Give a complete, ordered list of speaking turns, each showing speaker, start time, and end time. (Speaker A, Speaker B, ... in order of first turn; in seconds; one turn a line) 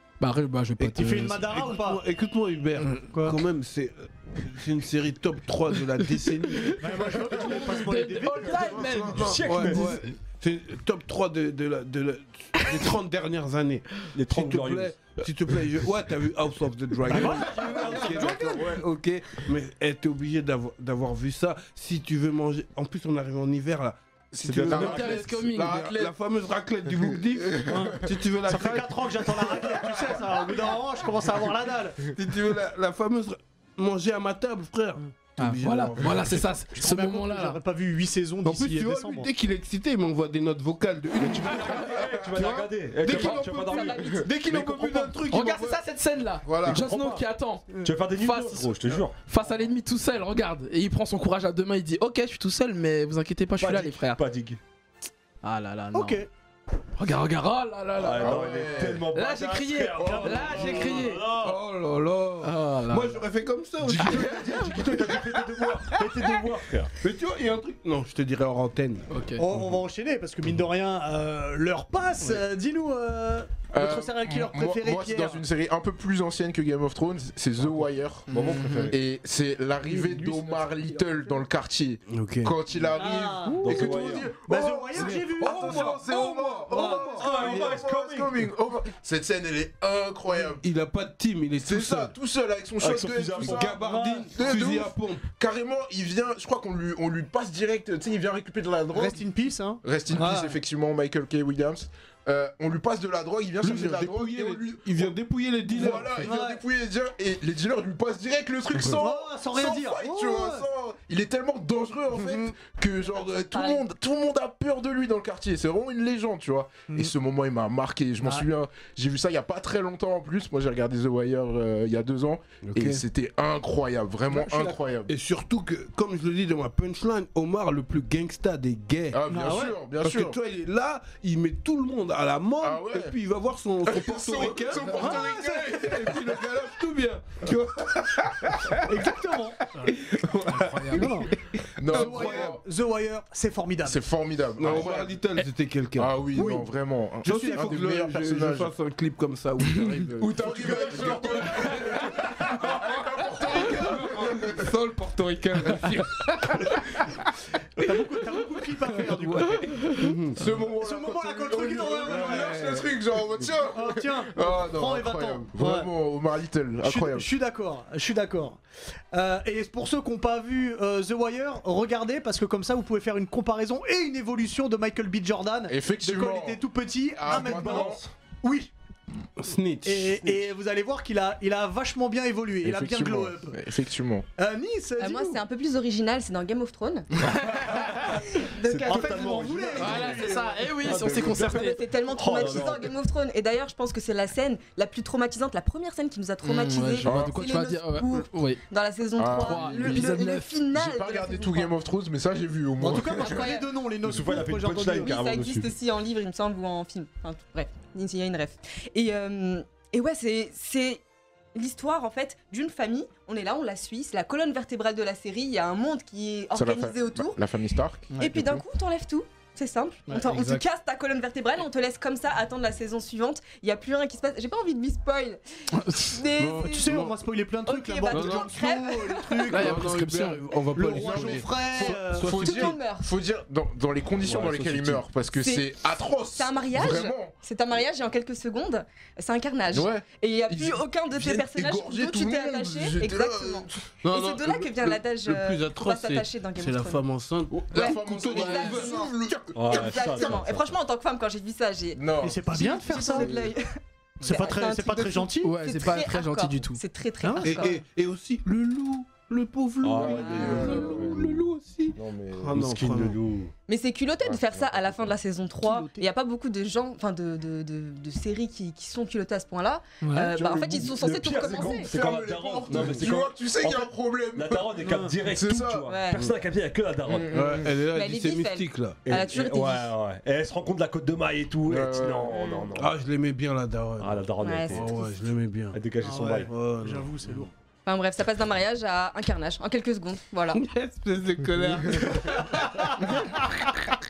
Speaker A: 0.2-1.6
Speaker B: 0.8-6.8
Speaker C: 0.9-2.0
Speaker C: 3.1-3.4
Speaker C: 6.8-8.6
Speaker A: 7.3-10.1
Speaker D: 8.5-9.2
Speaker E: 8.6-10.0
Speaker B: 9.1-29.4
Speaker E: 14.1-15.2
Speaker C: 17.1-18.6
Speaker E: 17.3-18.8
Speaker D: 24.3-26.1
Speaker E: 24.4-25.3
Speaker A: 24.8-25.8
Speaker D: 26.9-27.7
Speaker C: 27.6-32.0
Speaker B: 32.1-36.6
Speaker A: 35.4-37.6
Speaker C: 36.7-39.3
Speaker B: 38.4-41.8
Speaker E: 41.2-45.2
Speaker D: 41.4-42.8
Speaker B: 43.0-45.8
Speaker F: 43.1-44.2
Speaker D: 43.8-44.1
Speaker A: 45.3-54.2
Speaker D: 46.4-46.8
Speaker E: 46.6-49.2
Speaker E: 53.6-54.6
Speaker A: 55.4-56.2
Speaker C: 55.9-56.3
Speaker A: 57.0-61.3
Speaker E: 58.0-61.6
Speaker D: 58.1-59.1
Speaker D: 60.0-60.7
Speaker C: 60.0-60.4
Speaker B: 60.6-64.5
Speaker A: 62.4-63.2
Speaker E: 63.9-66.9
Speaker B: 67.0-69.1
Speaker A: 69.1-69.5
Speaker C: 69.4-75.4
Speaker D: 73.7-78.3
Speaker A: 78.3-78.9
Speaker E: 78.3-79.0
Speaker D: 78.9-90.6
Speaker B: 79.9-80.6
Speaker B: 82.1-82.6
Speaker C: 82.9-86.0
Speaker B: 83.5-84.1
Speaker E: 83.6-84.3
Speaker B: 84.9-87.8
Speaker C: 86.7-87.2
Speaker E: 87.1-88.5
Speaker B: 90.4-92.1
Speaker D: 91.6-93.8
Speaker E: 92.8-93.9
Speaker B: 93.4-95.2
Speaker C: 93.8-94.3
Speaker D: 94.3-99.2
Speaker C: 98.9-100.6
Speaker D: 99.8-105.1
Speaker B: 103.6-106.3
Speaker D: 105.7-125.1
Speaker C: 106.2-106.6
Speaker C: 108.8-110.7
Speaker C: 112.2-112.5
Speaker F: 113.5-113.8
Speaker B: 122.6-123.0
Speaker B: 124.3-138.8
Speaker D: 129.1-130.4
Speaker C: 129.3-129.7
Speaker D: 132.6-133.1
Speaker D: 133.8-136.7
Speaker C: 134.9-135.7
Speaker C: 138.8-139.6
Speaker B: 139.7-142.6
Speaker A: 140.5-141.0
Speaker C: 140.9-141.3
Speaker D: 141.8-142.6
Speaker C: 141.9-144.0
Speaker D: 143.8-145.2
Speaker B: 144.6-146.7
Speaker D: 145.9-148.7
Speaker C: 146.3-146.6
Speaker B: 147.2-151.5
Speaker C: 147.2-147.8
Speaker D: 150.2-154.7
Speaker E: 150.4-152.9
Speaker B: 153.7-156.8
Speaker E: 153.8-154.4
Speaker C: 157.8-159.8
Speaker B: 159.0-160.4
Speaker A: 159.7-160.1
Speaker D: 160.3-167.3
Speaker C: 160.8-162.7
Speaker B: 162.1-162.9
Speaker C: 163.7-165.9
Speaker C: 166.8-168.6
Speaker C: 169.1-178.7
Speaker D: 175.7-176.6
Speaker D: 177.2-178.0
Speaker E: 177.3-178.1
Speaker B: 179.4-180.5
Speaker C: 179.8-183.6
Speaker D: 182.6-184.2
Speaker C: 184.4-185.4
Speaker F: 185.0-187.1
Speaker E: 187.3-192.9
Speaker F: 188.4-189.4
Speaker C: 188.8-190.6
Speaker A: 189.8-191.8
Speaker D: 190.9-191.4
Speaker F: 191.3-201.7
Speaker A: 196.4-198.6
Speaker D: 197.0-197.4
Speaker D: 199.2-203.4
Speaker A: 199.3-200.5
Speaker C: 202.8-205.2
Speaker F: 203.1-203.7
Speaker E: 204.0-205.7
Speaker F: 204.9-211.0
Speaker F: 211.5-217.4
Speaker D: 216.5-218.6
Speaker F: 218.2-225.4
Speaker B: 220.1-220.6
Speaker A: 225.8-226.2
Speaker F: 225.9-227.0
Speaker B: 226.4-227.2
Speaker C: 226.6-229.9
Speaker F: 227.7-229.5
Speaker B: 228.1-228.6
Speaker A: 229.5-230.5
Speaker B: 229.5-232.7
Speaker C: 230.7-232.7
Speaker D: 230.9-237.3
Speaker F: 232.4-233.1
Speaker E: 234.2-234.9
Speaker B: 234.3-234.6
Speaker F: 235.3-235.7
Speaker F: 236.3-247.0
Speaker D: 239.7-243.8
Speaker B: 244.0-249.0
Speaker D: 247.5-250.2
Speaker F: 247.7-257.8
Speaker A: 248.3-248.8
Speaker E: 249.5-250.8
Speaker D: 251.9-252.4
Speaker C: 252.2-253.3
Speaker D: 252.9-253.5
Speaker C: 254.2-255.5
Speaker A: 255.4-256.8
Speaker C: 257.2-257.7
Speaker B: 257.4-263.2
Speaker E: 259.8-260.7
Speaker D: 259.9-262.6
Speaker F: 260.4-260.8
Speaker E: 262.5-263.5
Speaker F: 263.7-271.9
Speaker D: 264.2-264.9
Speaker C: 265.6-266.0
Speaker C: 270.0-270.3
Speaker D: 270.3-275.9
Speaker E: 270.7-277.6
Speaker B: 272.7-273.1
Speaker C: 274.9-275.1
Speaker F: 275.9-276.2
Speaker D: 277.1-277.7
Speaker B: 277.3-279.0
Speaker F: 277.9-279.9
Speaker E: 279.1-282.9
Speaker D: 281.7-282.6
Speaker B: 282.7-287.5
Speaker E: 284.0-285.0
Speaker F: 284.4-284.9
Speaker E: 285.7-286.5
Speaker C: 286.0-287.5
Speaker F: 287.9-290.6
Speaker B: 290.5-292.6
Speaker C: 292.3-293.8